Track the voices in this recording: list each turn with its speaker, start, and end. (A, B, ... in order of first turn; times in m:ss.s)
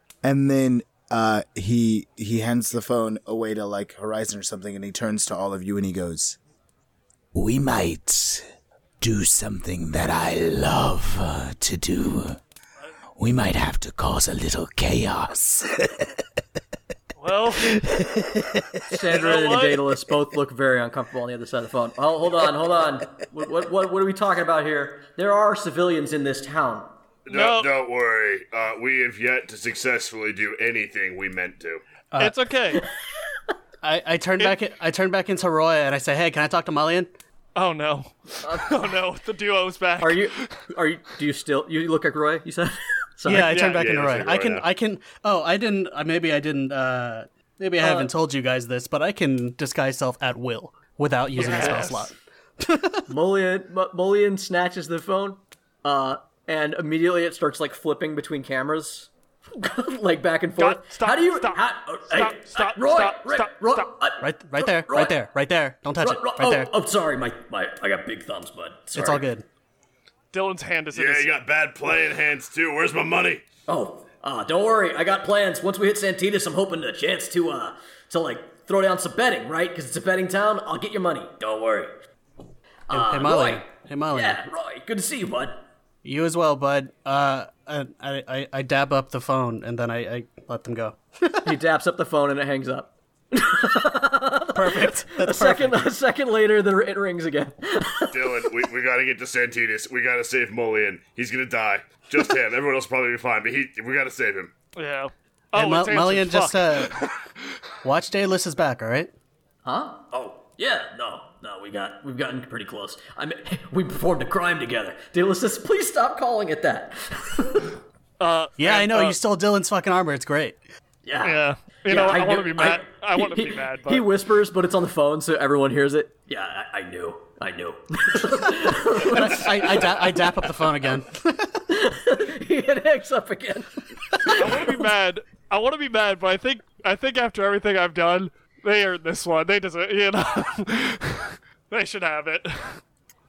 0:00.2-0:06.4 A
0:07.3-0:08.4 A
0:09.0-0:12.4 A
0:13.2-0:16.1 A
0:17.2-0:17.9 B
0:17.5-0:18.6 A
0:18.9-0:26.9 C
0:19.1-0:19.9 B
0:27.3-0:31.8 D
0:27.3-0:27.7 B
0:32.1-0:32.4 E
0:32.2-0:32.8 B
0:33.8-0:37.1 E
0:37.6-0:40.6 B
0:38.4-0:38.8 C
0:40.0-0:43.6 C
0:43.2-0:53.0 E
0:43.4-0:43.8 B
0:43.6-0:44.6 D
0:47.8-0:48.1 C
0:51.3-0:52.1 B
0:51.4-0:51.8 C
0:53.1-1:05.2 C
1:00.6-1:03.9 B
1:04.2-1:06.7 E
1:06.0-1:09.2 C
1:08.9-1:09.4 E
1:10.3-1:11.3 B
1:10.9-1:13.4 D
1:13.7-1:21.9 C
1:22.9-1:25.7 C
1:22.9-1:24.4 E
1:26.0-1:31.6 E
1:31.4-1:38.5 C
1:34.5-1:35.9 E
1:38.1-1:44.5 D
1:44.8-1:47.2 B
1:45.5-1:47.1 E
1:47.8-1:49.1 E
1:49.6-1:57.8 C
1:58.2-1:59.2 B
1:58.6-2:00.6 E
2:01.0-2:10.0 C
2:01.2-2:04.1 B
2:09.0-2:11.6 E
2:11.7-2:14.7 C
2:14.3-2:22.8 B